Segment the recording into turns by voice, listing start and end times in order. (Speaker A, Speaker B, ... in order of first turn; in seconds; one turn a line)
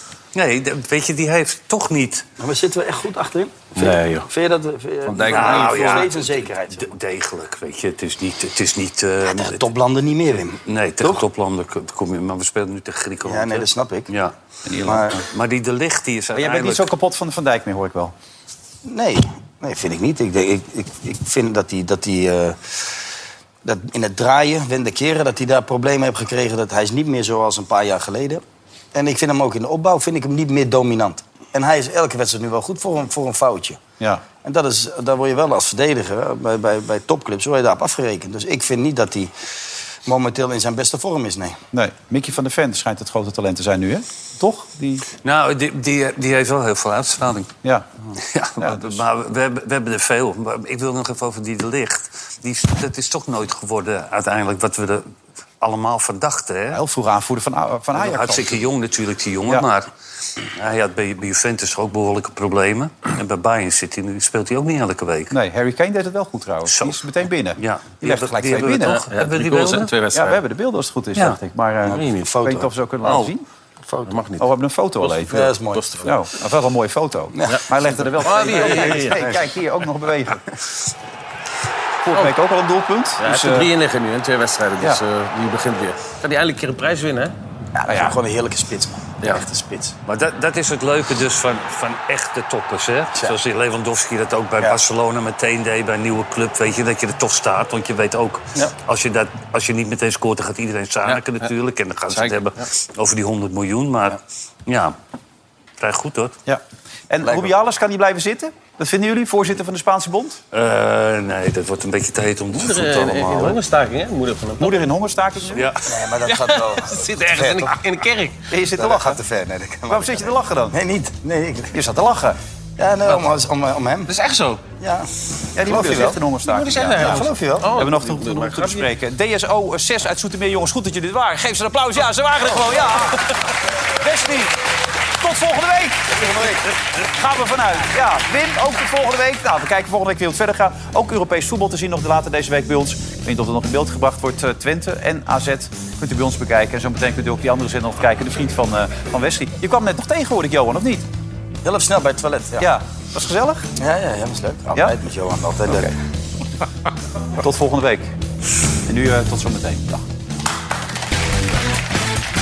Speaker A: 0.3-2.3
Speaker B: 2.4-7.0
Speaker C: 3.8-4.3
Speaker C: 5.1-6.1
Speaker A: 5.2-9.7
Speaker B: 9.2-11.2
Speaker A: 10.7-14.3
Speaker B: 13.2-14.1
Speaker D: 14.7-15.1
Speaker B: 14.8-15.2
Speaker A: 15.1-16.9
Speaker D: 16.4-18.1
Speaker B: 18.9-22.6
Speaker B: 23.6-28.4
Speaker B: 28.9-33.8
Speaker B: 34.4-39.3
Speaker B: 40.1-41.6
Speaker D: 41.7-45.1
Speaker A: 45.2-47.5
Speaker A: 48.2-55.1
Speaker D: 48.6-49.0
Speaker A: 55.6-56.8
Speaker D: 56.7-58.6
Speaker A: 57.9-59.9
Speaker A: 60.6-65.4
Speaker D: 65.3-69.0
Speaker A: 66.7-69.9
Speaker C: 68.8-70.4
Speaker D: 70.1-73.5
Speaker B: 71.8-72.7
Speaker C: 71.9-72.3
Speaker A: 73.0-73.3
Speaker B: 73.9-74.1
Speaker C: 74.0-76.2
Speaker D: 74.4-75.4
Speaker B: 75.3-75.8
Speaker D: 76.0-80.4
Speaker B: 77.3-77.6
Speaker C: 77.5-79.3
Speaker B: 78.2-79.5
Speaker D: 82.0-83.7
Speaker C: 83.2-87.3
Speaker B: 87.8-90.0
Speaker D: 87.9-88.2
Speaker A: 90.1-105.0
Speaker C: 101.1-101.5
Speaker C: 102.1-102.7
Speaker A: 105.8-106.4
Speaker D: 106.5-110.4
Speaker B: 107.2-107.5
Speaker A: 110.5-113.6
Speaker C: 112.5-114.8
Speaker D: 114.6-115.7
Speaker A: 115.5-115.8
Speaker B: 115.8-117.8
Speaker C: 116.2-118.4
Speaker D: 118.5-119.2
Speaker B: 118.8-121.8
Speaker D: 119.9-120.8
Speaker D: 121.7-122.4
Speaker B: 122.8-124.1
Speaker C: 124.1-124.6
Speaker B: 124.8-125.1
Speaker D: 125.5-134.6
Speaker B: 125.6-126.2
Speaker C: 126.4-128.9
Speaker B: 127.0-127.7
Speaker D: 135.2-136.3
Speaker B: 136.1-136.7
Speaker D: 137.0-151.1
Speaker B: 151.6-152.7
Speaker D: 152.6-153.7
Speaker B: 153.8-155.9
Speaker D: 157.4-158.1
Speaker D: 158.9-160.0